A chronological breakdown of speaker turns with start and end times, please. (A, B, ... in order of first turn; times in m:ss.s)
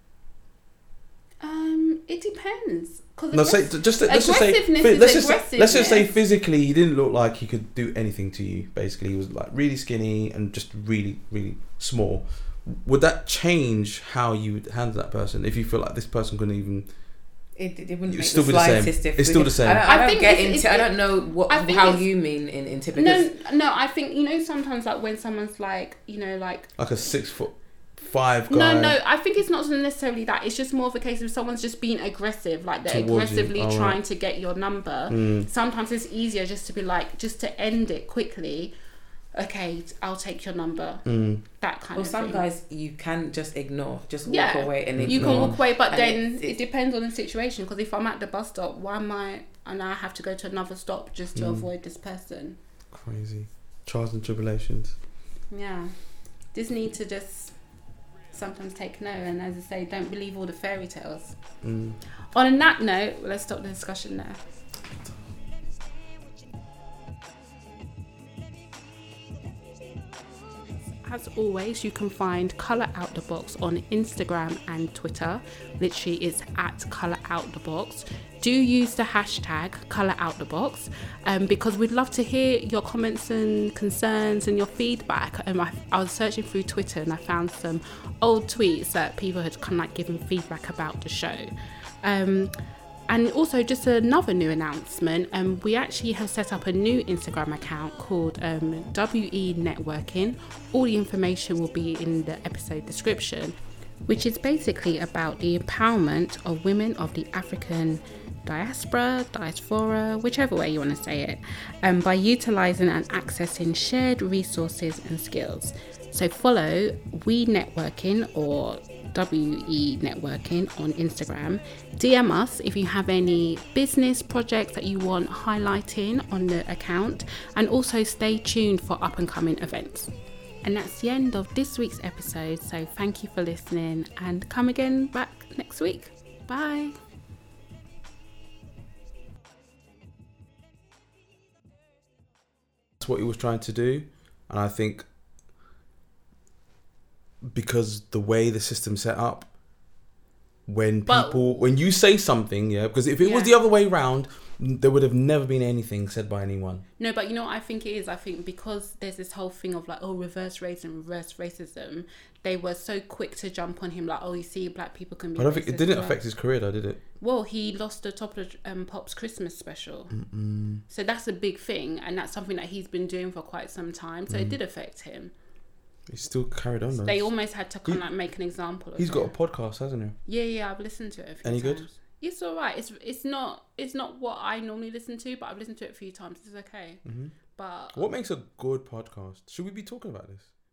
0:01.4-0:06.1 A
0:03.3-0:16.9 B
0:17.6-0:23.3 C
0:18.1-0:19.8 B
0:19.8-0:22.0 A
0:22.9-0:26.7 A
0:26.8-0:29.0 B
0:28.5-0:38.7 A
0:32.9-0:34.0 B
0:35.1-0:35.5 B
0:39.3-0:42.4 A
0:41.0-0:41.4 B
0:42.0-0:46.5 C
0:44.3-0:52.6 A
0:45.0-0:45.5 B
0:51.4-0:51.6 B
0:52.9-0:55.0 B
0:55.5-0:55.9 A
0:56.5-0:57.5 A
0:58.3-1:01.4 A
1:01.6-1:02.0 B
1:02.3-1:04.4 A
1:11.0-1:31.5 A
1:32.0-1:32.5 A
1:33.1-2:10.1 A
2:10.6-2:16.9 A
2:23.0-2:25.0 B
2:27.4-2:29.5 B
2:30.7-2:36.8 B
2:31.0-2:31.7 A
2:33.2-2:33.5 A
2:37.0-2:46.2 A
2:45.4-2:47.0 B
2:47.2-2:50.1 A
2:50.1-2:50.8 B
2:50.9-2:55.3 A
2:54.3-2:54.5 B
2:56.1-2:57.3 B
2:56.9-2:59.3 A
2:59.0-3:00.2 B
3:00.2-3:07.0 A
3:01.4-3:01.8 B
3:07.0-3:07.3 B
3:07.6-3:08.1 A
3:07.9-3:10.5 B